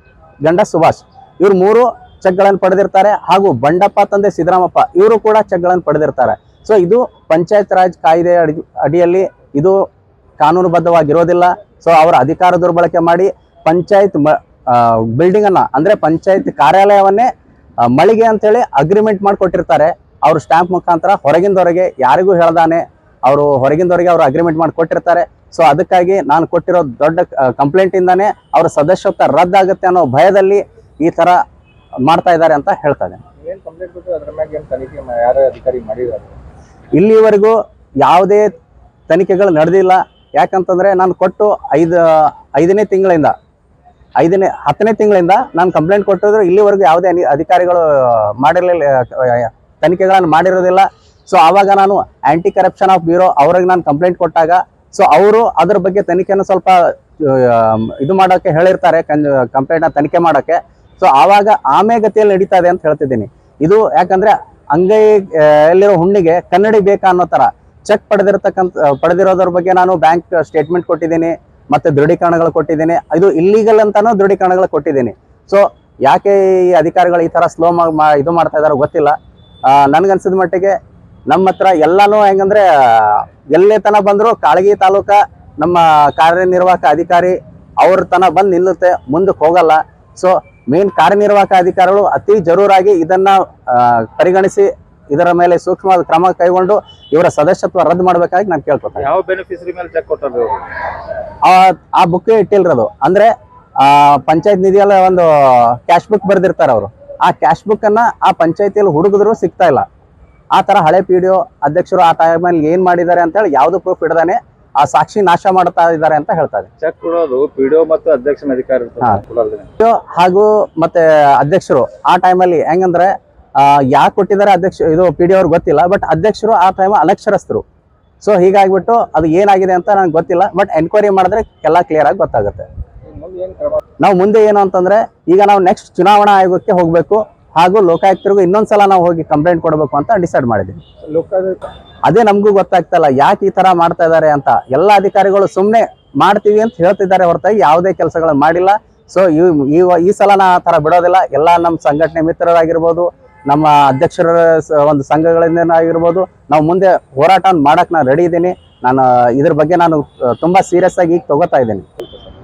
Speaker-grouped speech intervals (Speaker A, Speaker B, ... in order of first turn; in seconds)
Speaker A: 0.4-9.7, 10.4-17.3, 17.9-31.4, 32.1-33.2, 36.9-38.5, 39.1-43.3, 44.2-79.1, 79.7-80.7, 81.3-99.1, 101.4-109.8, 110.5-116.7, 119.8-127.6, 128.2-132.7, 134.0-140.8, 142.1-161.8
Speaker B: 33.4-36.3, 99.0-100.7, 116.8-119.7, 133.1-133.8, 141.1-141.6